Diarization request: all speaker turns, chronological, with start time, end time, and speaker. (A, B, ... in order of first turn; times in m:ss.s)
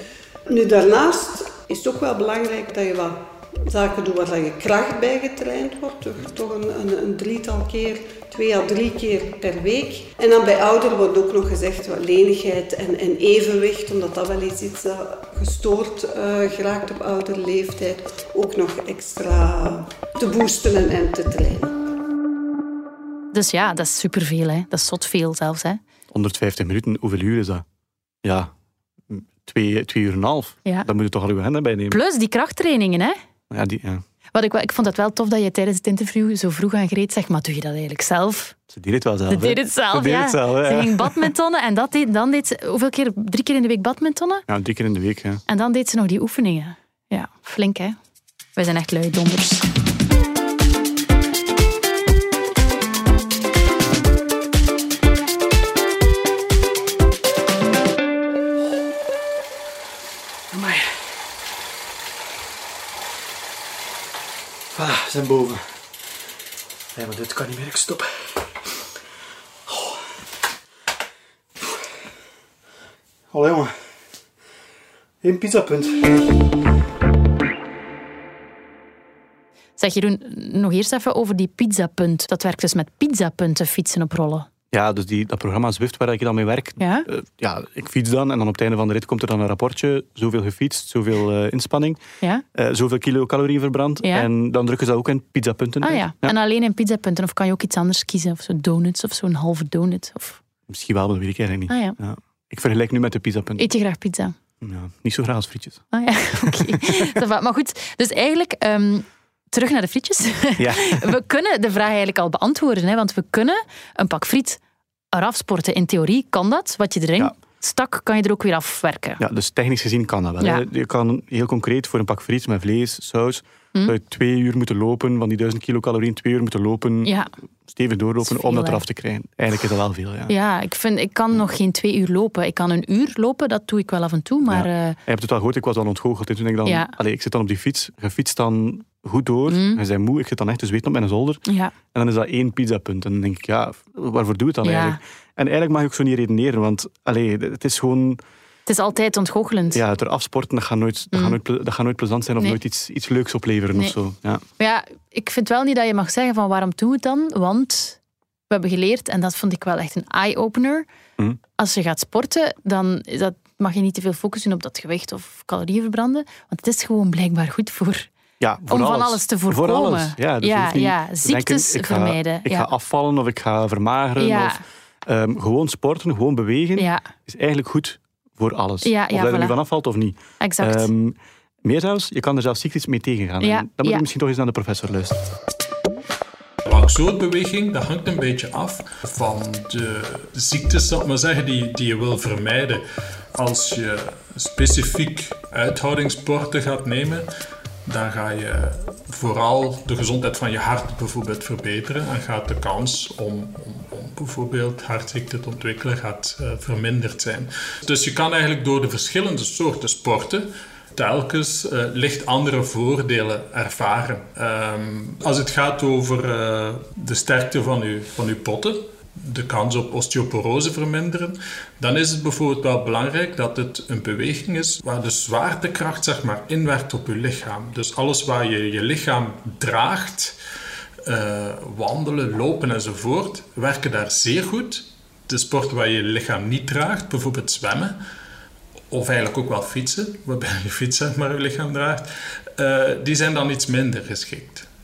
0:00.5-0:21.8 A
0:23.3-0:25.8 B
0:26.1-0:27.6 C
0:28.2-0:28.5 C
0:29.1-0:32.0 C
0:31.9-0:33.2 B
0:33.5-0:34.0 C
0:34.4-0:38.6 B
0:38.7-0:41.3 C
0:39.3-0:44.5 B
0:44.5-0:45.4 C
0:45.5-0:48.0 B
0:48.6-0:49.7 B
1:00.5-1:01.1 C
1:04.7-1:05.8 C
1:06.9-1:08.7 C
1:09.7-1:10.1 C
1:11.6-1:11.8 C
1:13.3-1:13.8 C
1:15.2-1:16.2 C
1:19.8-1:24.5 B
1:24.7-1:32.0 C
1:26.8-1:27.1 B
1:32.5-1:36.4 C
1:34.0-1:34.3 B
1:35.8-1:40.4 B
1:40.7-1:43.7 C
1:41.7-1:42.0 B
1:43.6-1:44.4 B
1:44.6-1:45.8 C
1:45.9-1:54.6 B
1:46.4-1:47.1 C
1:50.6-1:51.2 C
1:55.1-1:59.2 B
1:59.2-2:07.1 C
2:00.4-2:00.6 B
2:07.0-2:07.3 B
2:07.7-2:10.3 C
2:08.2-2:08.8 B
2:10.3-2:15.0 B
2:14.5-2:28.2 C
2:16.6-2:16.9 B
2:19.5-2:19.8 B
2:21.5-2:21.7 B
2:24.6-2:25.0 B
2:28.7-2:29.8 B
2:29.7-2:34.4 C
2:31.1-2:31.4 B
2:34.6-2:38.0 B
2:38.5-2:40.9 B
2:41.6-2:48.1 B
2:48.4-3:05.2 C
2:48.7-2:52.7 B
2:54.2-2:54.6 B
2:56.8-2:57.0 B
2:58.8-2:59.6 B
3:00.4-3:00.9 B
3:03.4-3:04.0 B
3:06.7-3:12.8 D
3:13.4-3:17.3 D
3:17.9-3:50.4 D
3:51.1-3:58.0 D
3:58.9-4:04.7 D